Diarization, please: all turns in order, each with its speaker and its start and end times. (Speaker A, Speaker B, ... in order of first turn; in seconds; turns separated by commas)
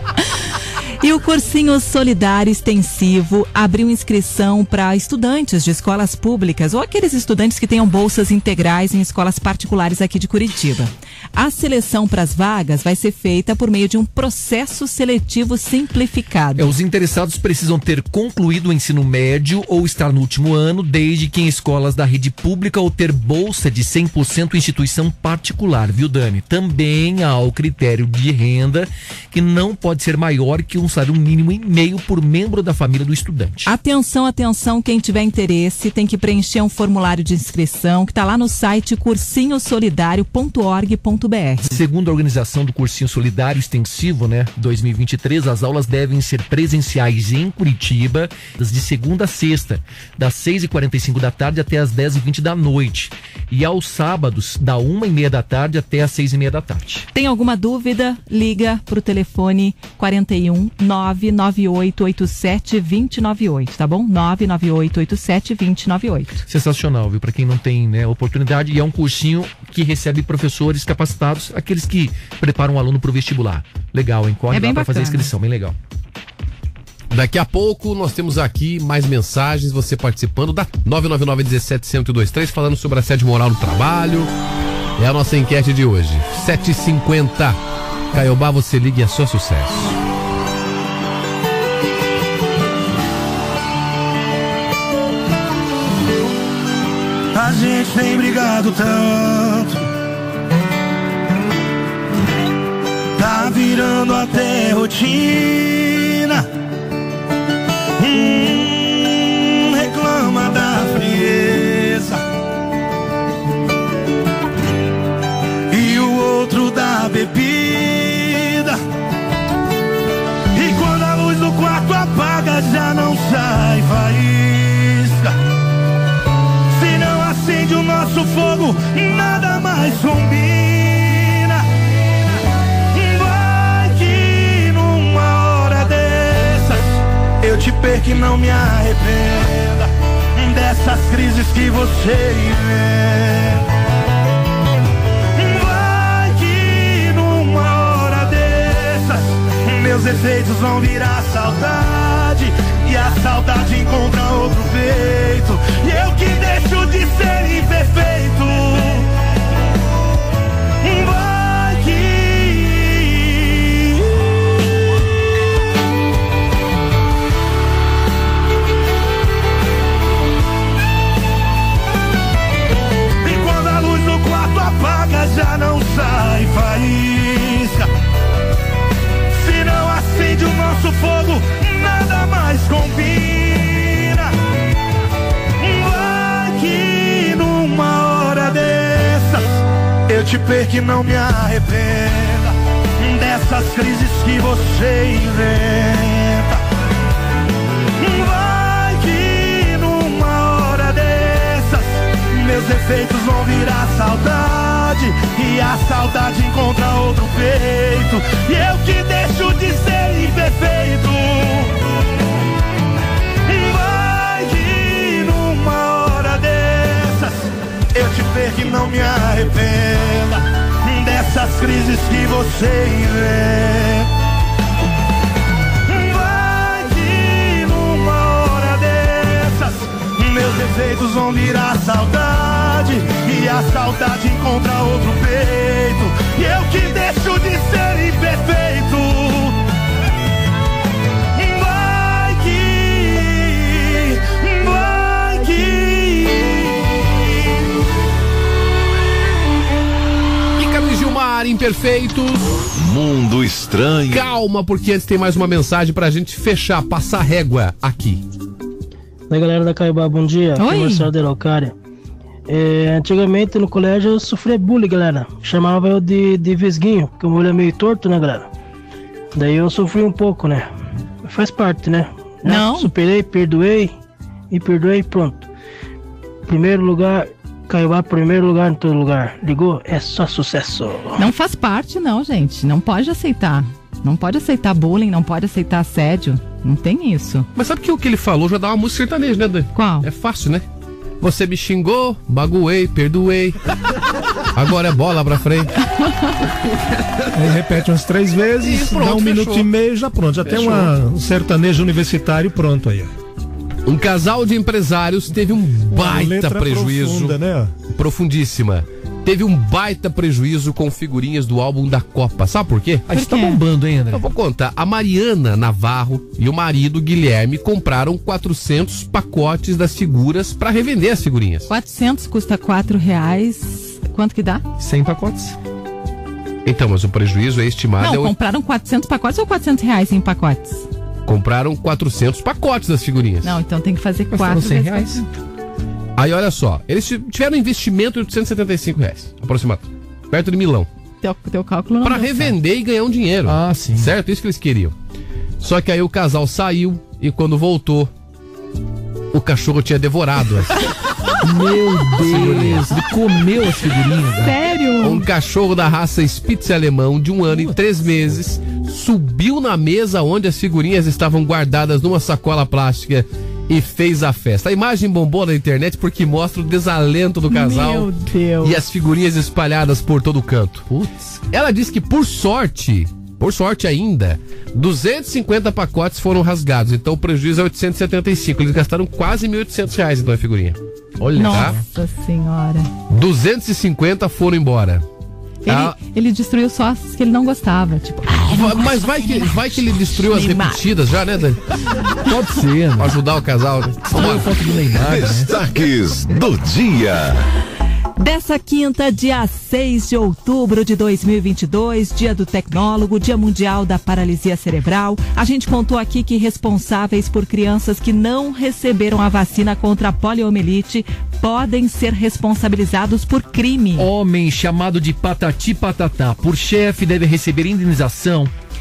Speaker A: 1.0-16.7, Speaker B: 16.6-33.7, Speaker A: 33.6-41.7, Speaker B: 41.6-57.1, Speaker A: 57.1-66.5, Speaker B: 66.5-75.8, Speaker A: 74.5-75.3, Speaker C: 77.1-84.3, Speaker C: 85.0-87.6, Speaker C: 88.1-90.0, Speaker D: 97.3-99.8, Speaker D: 103.2-106.4, Speaker D: 108.0-112.2, Speaker D: 115.7-118.8, Speaker D: 120.5-125.3, Speaker D: 126.7-131.6, Speaker D: 132.9-143.6, Speaker D: 145.3-159.1, Speaker D: 160.8-164.2, Speaker D: 173.2-177.9, Speaker D: 179.3-184.3, Speaker D: 185.6-196.6, Speaker D: 198.0-211.8, Speaker D: 213.5-224.1, Speaker D: 225.9-239.6, Speaker D: 241.3-247.3, Speaker C: 250.6-252.6, Speaker E: 252.8-254.3, Speaker C: 254.1-258.2, Speaker F: 259.3-261.7, Speaker A: 260.6-261.1, Speaker F: 262.5-268.5, Speaker F: 269.4-270.7, Speaker F: 271.2-273.9, Speaker A: 272.4-272.9, Speaker F: 274.5-275.4, Speaker F: 276.5-281.2, Speaker A: 281.2-287.5, Speaker C: 287.5-290.6, Speaker A: 289.7-290.1, Speaker C: 291.2-293.6, Speaker C: 294.5-295.7, Speaker G: 297.3-303.1, Speaker C: 298.6-299.7, Speaker C: 300.4-300.9, Speaker C: 303.9-307.4, Speaker G: 305.9-307.7, Speaker C: 307.9-313.0, Speaker B: 313.1-314.2, Speaker A: 313.1-313.6, Speaker C: 314.1-321.7, Speaker A: 321.7-324.6, Speaker B: 324.8-325.6, Speaker C: 326.6-328.3, Speaker A: 328.0-330.9, Speaker C: 331.2-333.6, Speaker A: 333.4-335.2, Speaker B: 334.3-335.2, Speaker C: 336.1-340.9, Speaker A: 341.2-342.5, Speaker C: 342.0-344.9, Speaker B: 343.4-344.1, Speaker C: 345.6-348.1, Speaker C: 349.3-350.7, Speaker B: 351.4-354.6, Speaker C: 352.2-353.0, Speaker A: 354.4-355.2, Speaker C: 355.0-368.1, Speaker A: 367.5-368.8, Speaker C: 368.6-370.9, Speaker B: 370.9-371.4, Speaker C: 371.5-381.8, Speaker A: 381.4-382.9, Speaker C: 383.1-385.0, Speaker A: 385.6-390.8, Speaker C: 385.7-385.9, Speaker C: 388.3-391.6, Speaker B: 392.3-393.1, Speaker C: 393.0-394.5, Speaker B: 394.1-395.6, Speaker E: 394.9-397.4, Speaker A: 398.2-414.1, Speaker B: 414.0-418.5